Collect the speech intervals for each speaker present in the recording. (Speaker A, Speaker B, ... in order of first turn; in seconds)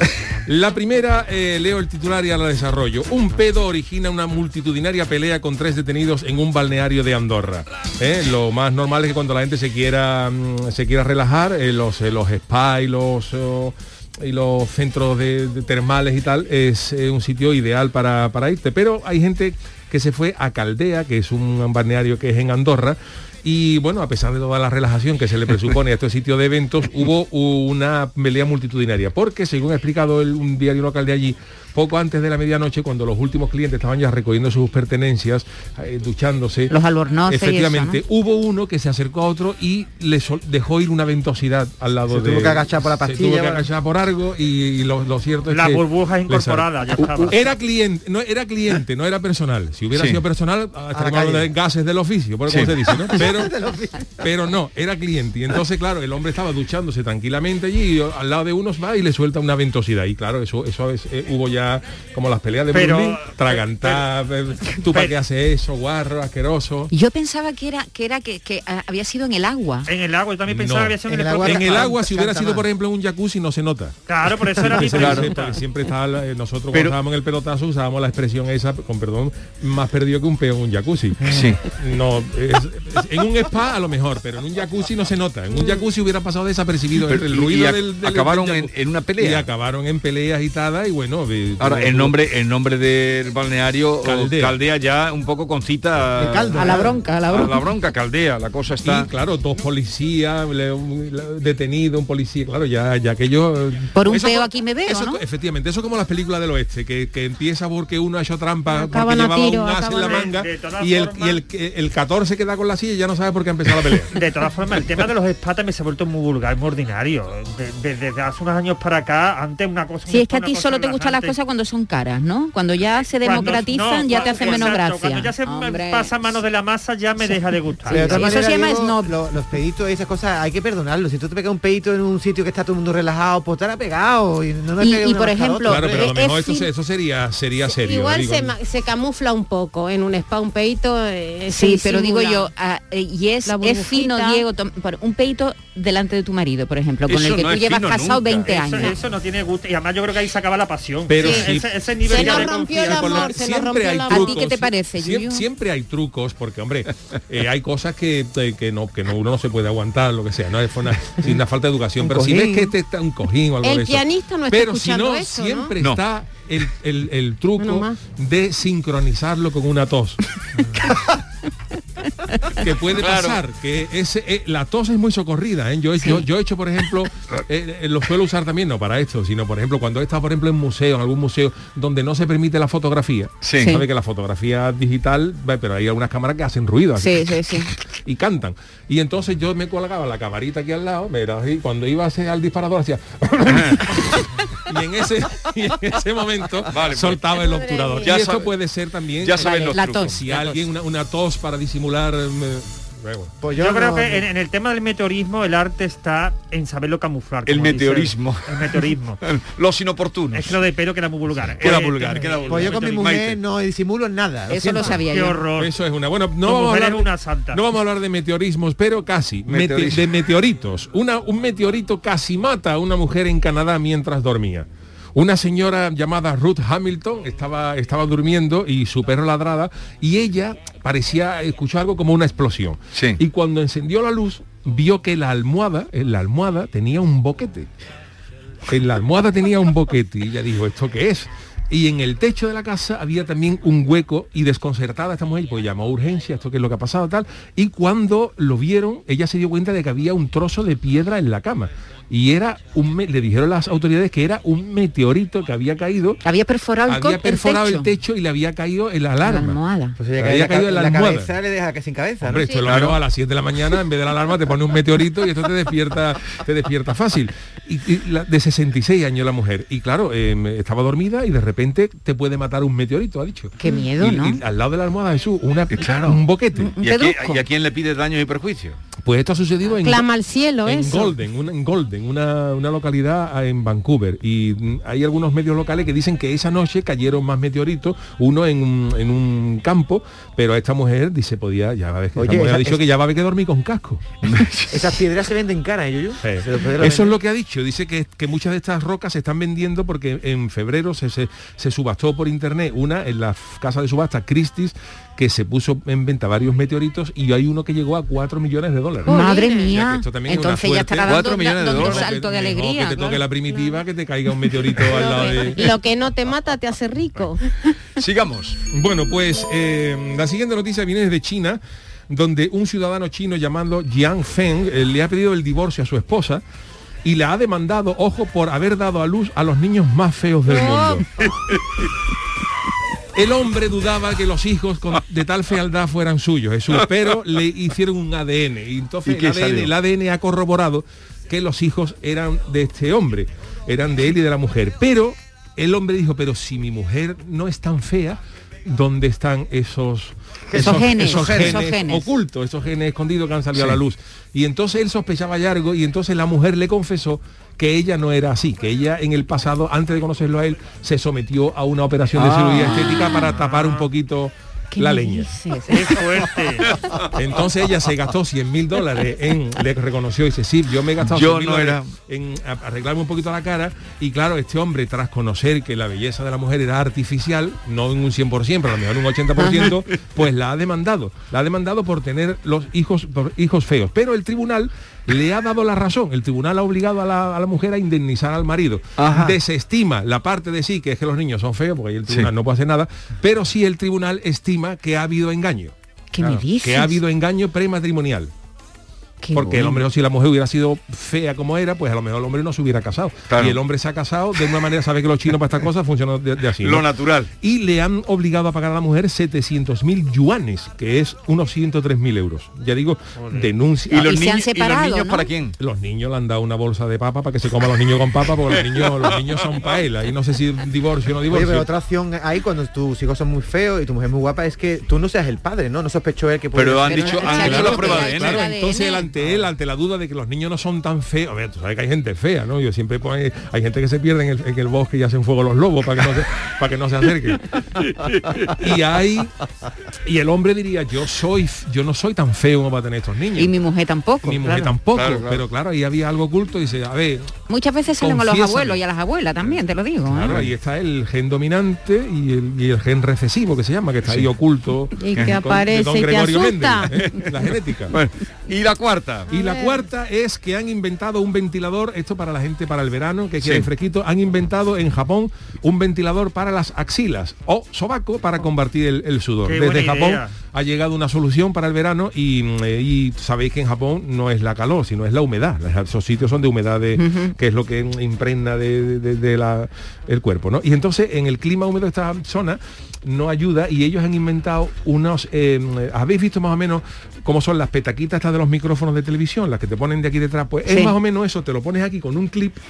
Speaker A: 0.5-36.7, 37.3-53.5, 54.2-66.9, 70.5-74.0, 74.6-92.2, 94.0-94.6, 98.8-114.1, 135.7-138.5, 151.1-170.2, 172.6-203.3, 215.6-237.7, 238.7-256.2, 256.9-259.6, 260.2-261.3, 262.2-276.7, 279.0-280.1, 280.6-294.2, 296.2-315.8, 318.7-326.4, 327.0-331.1, 333.1-365.3, 367.1-398.3, 399.3-406.9, 407.4-414.2, 415.6-421.7, 427.3-437.4, 438.6-439.3, 440.0-443.5, 444.2-447.3, 448.0-448.8, 450.1-458.0, 459.3-492.6
Speaker B: 36.7-38.0, 66.9-69.9, 96.5-97.6, 104.0-105.2, 120.1-126.4, 127.2-129.1, 134.8-136.3, 141.5-149.0, 154.1-155.4, 187.0-187.7, 199.4-200.2, 214.5-215.4, 256.2-257.9, 259.2-260.0, 273.6-274.4, 276.6-277.4, 309.1-313.3, 350.6-352.1, 364.7-366.0, 396.1-397.0, 399.2-399.8, 414.0-415.3, 426.9-429.1, 443.4-444.7, 447.5-450.4, 477.0-477.3, 490.7-490.9
Speaker C: 42.1-43.7, 50.9-51.5, 53.2-54.2, 71.1-72.7, 96.2-97.0, 127.9-136.1, 162.0-162.6, 203.4-204.2, 212.5-215.0, 260.0-262.5, 292.2-292.8, 294.7-297.1, 421.3-427.3
Speaker D: 45.5-47.5, 62.7-64.0, 64.9-65.2, 69.9-71.9, 74.1-75.6, 110.0-111.4, 114.1-121.3, 123.2-128.2, 148.5-153.4, 203.6-209.2, 210.3-213.1, 215.0-215.7, 216.4-217.6, 363.4-363.9, 365.7-366.7, 413.2-413.5, 469.4-470.3
Speaker E: 49.9-50.2, 52.5-52.8, 74.8-75.3, 81.2-81.6, 87.0-89.5, 91.6-99.1, 147.1-148.9, 173.0-173.4, 183.4-183.8, 193.5-193.8, 196.7-197.2, 198.0-198.5, 199.2-200.6, 207.5-210.6, 211.6-213.4, 219.5-220.1, 232.9-233.2, 262.6-263.0, 275.8-276.2, 276.8-278.8, 294.2-294.8, 311.1-312.1, 318.0-318.6, 339.1-339.7, 362.2-363.2, 371.0-371.9, 389.0-389.4, 403.3-403.6, 406.6-407.3, 413.9-415.6, 418.7-419.2, 426.5-428.5, 437.9-438.5, 444.9-445.4, 450.2-450.5, 456.9-457.4, 457.9-459.3, 463.4-463.7
Speaker F: 108.7-110.3, 136.0-136.6, 137.7-142.5, 143.5-144.4, 152.1-154.4, 163.6-165.7, 167.6-168.0, 197.4-198.1, 279.8-281.1, 309.1-309.7, 314.9-317.4, 330.5-331.0, 455.0-457.0, 459.3-459.8